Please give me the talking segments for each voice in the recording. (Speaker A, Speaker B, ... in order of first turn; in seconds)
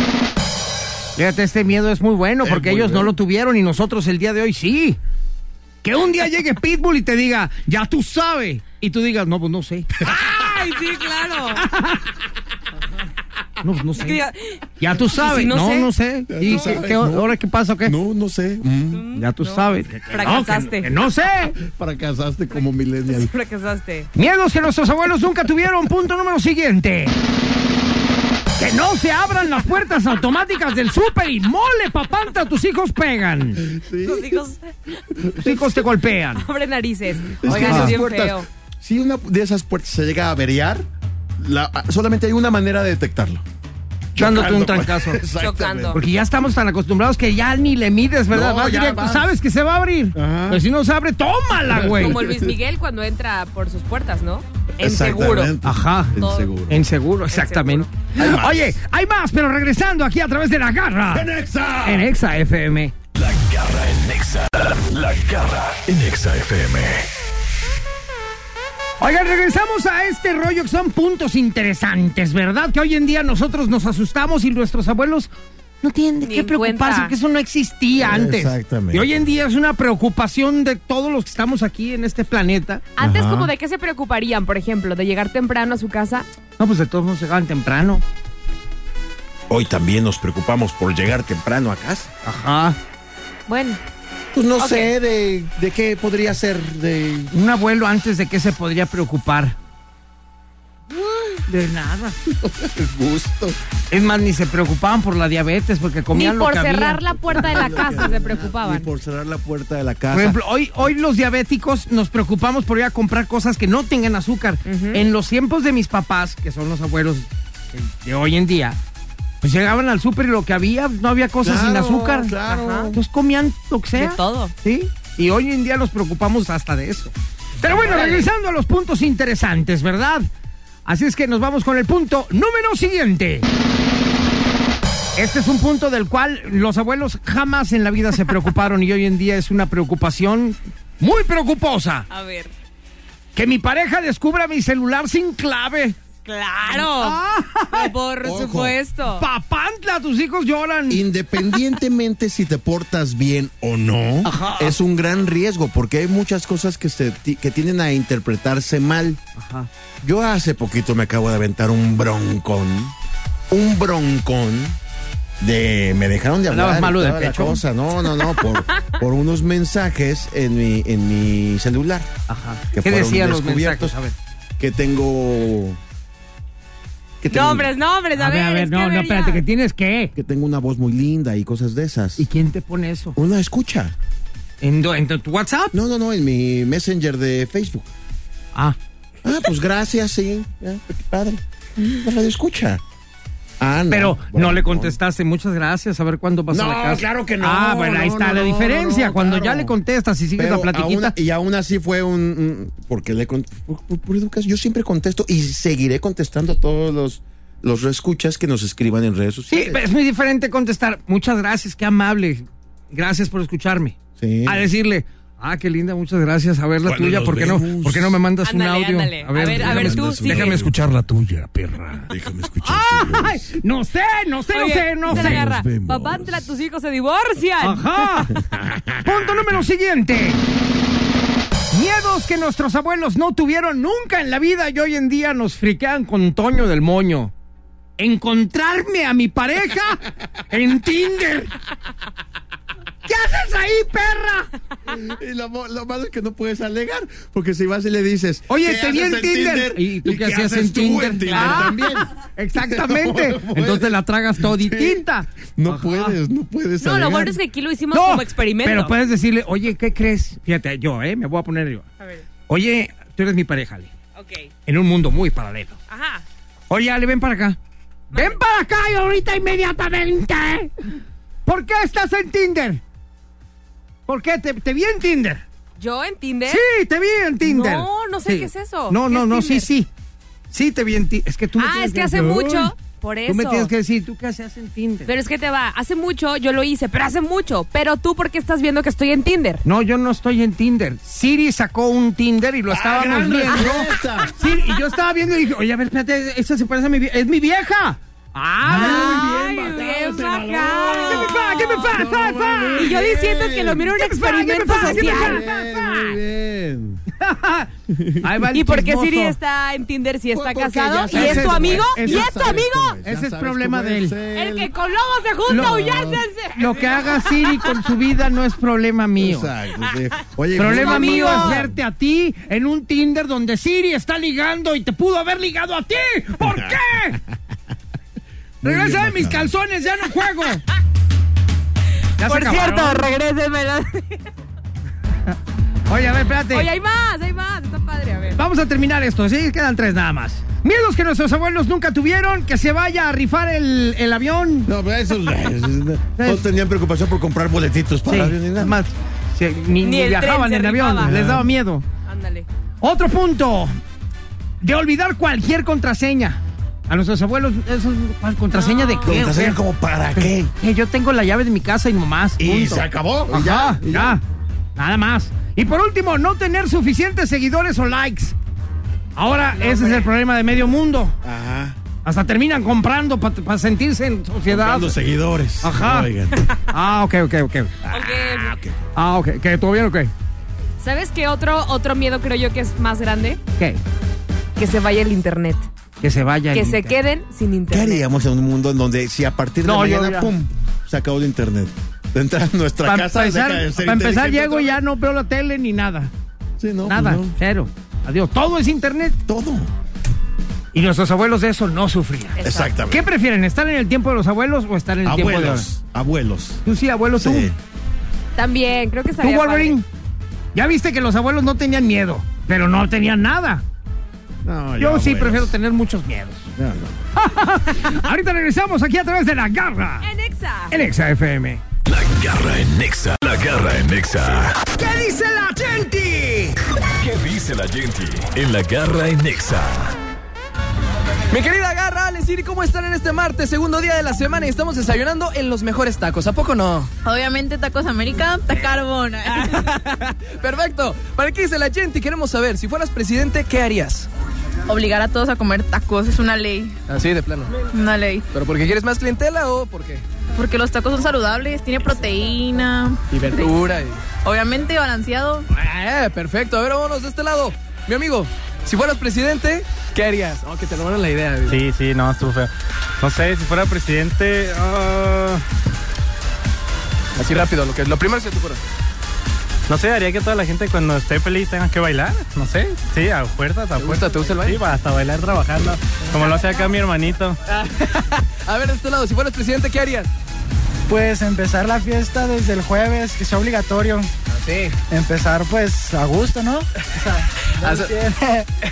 Speaker A: 1.1-5.0, 5.8-10.0, 11.6-12.0, 13.6-14.2, 14.8-17.9, 19.1-21.6, 24.1-27.1, 28.6-33.6, 35.4-36.5, 37.5-37.9, 44.1-45.2, 45.9-52.2, 55.6-56.2, 56.7-61.3, 61.8-62.9, 69.0-75.3, 75.8-82.8, 86.6-88.0, 92.2-92.8, 97.3-99.5, 101.5-102.2, 103.9-107.9, 110.1-118.8, 119.4-122.3, 122.9-130.2, 130.8-133.4, 135.2-142.1, 143.3-145.9, 146.6-147.9, 149.2-151.0, 154.2-154.8, 159.4-159.7, 166.5-167.6, 172.3-174.1, 178.1-180.1, 182.2-183.2, 184.6-185.7, 193.9-201.2, 209.5-222.1, 222.6-225.5, 227.6-228.3, 229.0-230.4, 231.7-237.3, 238.0-241.5, 243.1-244.5, 248.5-256.2, 257.9-261.9, 262.5-263.9, 264.6-265.8, 266.7-267.6, 268.1-270.7, 271.4-272.8, 274.1-275.4, 276.5-279.9, 280.5-282.7, 283.3-285.1, 289.6-299.2, 300.8-303.0, 303.9-305.4, 307.2-309.4, 311.1-314.1, 315.4-315.9, 316.5-319.5, 320.6-327.2, 328.6-330.6, 332.2-333.1, 335.9-336.7, 338.3-344.7, 346.2-346.4, 348.1-351.8, 352.8-353.7, 354.6-359.6, 360.1-364.2, 364.8-368.4, 369.1-371.1, 372.0-374.9, 375.6-376.1, 376.7-377.8, 378.9-380.1, 386.0-387.0, 389.6-390.3, 392.8-396.1, 396.8-399.2, 400.7-405.7, 406.6-407.5, 409.2-409.8, 410.5-413.6, 414.8-416.5, 417.1-420.1, 420.7-421.6, 424.7-426.6
Speaker B: 2.4-3.1, 16.3-17.3, 17.8-19.1, 21.6-23.3, 33.6-34.4, 35.1-35.6, 37.3-40.9, 41.4-43.4, 44.1-46.0, 48.3-49.4, 50.1-50.6, 51.6-52.6, 54.8-56.8, 58.1-58.7, 61.1-62.1, 78.0-79.2, 83.0-83.5, 89.5-92.1, 94.3-97.3, 100.9-101.4, 102.3-103.6, 107.1-110.4, 121.4-123.0, 148.2-148.8, 150.9-159.2, 160.0-162.9, 163.5-164.8, 165.4-172.1, 172.7-173.9, 174.6-175.8, 177.2-177.7, 180.1-182.2, 183.2-183.9, 185.7-187.9, 189.2-192.8, 193.6-195.0, 196.5-199.8, 200.3-209.8, 214.2-214.7, 216.8-218.2, 219.5-220.7, 222.1-223.5, 225.1-226.5, 228.3-229.4, 244.8-257.4, 292.7-294.6, 298.6-303.9, 304.7-307.0, 307.9-308.4, 310.3-314.7, 315.4-316.3, 319.2-321.8, 326.4-326.8, 328.6-329.5, 344.6-348.8, 351.0-351.5, 359.0-360.5, 362.4-364.2, 371.2-371.8, 374.5-376.4, 377.8-378.8, 387.7-394.7, 396.6-397.4, 399.3-399.7, 402.4-403.0, 405.0-406.6, 407.1-407.6, 414.4-415.6, 416.6-416.9
Speaker C: 10.0-11.6, 13.9-15.9, 16.4-16.7, 18.9-20.9, 23.1-24.1, 34.0-34.7, 36.4-38.5, 45.4-46.0, 51.7-55.5, 56.2-56.5, 57.3-58.0, 76.2-77.1, 83.0-86.3, 93.5-93.8, 94.6-94.9, 106.1-108.9, 114.7-115.0, 122.5-122.9, 124.0-124.5, 127.7-128.3, 142.1-142.5, 146.2-149.2, 177.3-179.4, 218.4-220.6, 224.5-228.3, 256.8-259.0, 264.1-264.5, 265.9-266.2, 268.1-268.4, 275.8-276.6, 277.4-279.6, 281.6-283.7, 285.1-289.6, 298.7-302.0, 302.8-306.1, 308.5-313.0, 314.3-317.8, 320.7-321.6, 332.2-334.3, 336.5-338.4, 349.8-351.1, 352.0-352.5, 358.5-359.1, 369.6-370.1, 377.9-378.6, 380.8-383.4, 384.6-385.7, 386.5-388.1, 402.4-402.7, 408.3-409.8, 420.0-420.8
Speaker D: 63.1-67.1, 421.9-424.6, 427.0-429.9
Speaker E: 431.3-436.9, 439.3-444.1, 446.9-447.6, 448.3-450.0, 453.1-454.0, 455.5-461.6, 467.2-468.6, 473.8-474.6, 477.5-480.1, 484.3-484.8, 487.6-487.9
Speaker F: 437.0-439.6, 444.7-446.8, 447.7-448.2, 450.3-453.5, 454.2-455.4
Speaker G: 461.5-465.4, 469.7-477.4
Speaker H: 480.9-484.1, 484.8-488.4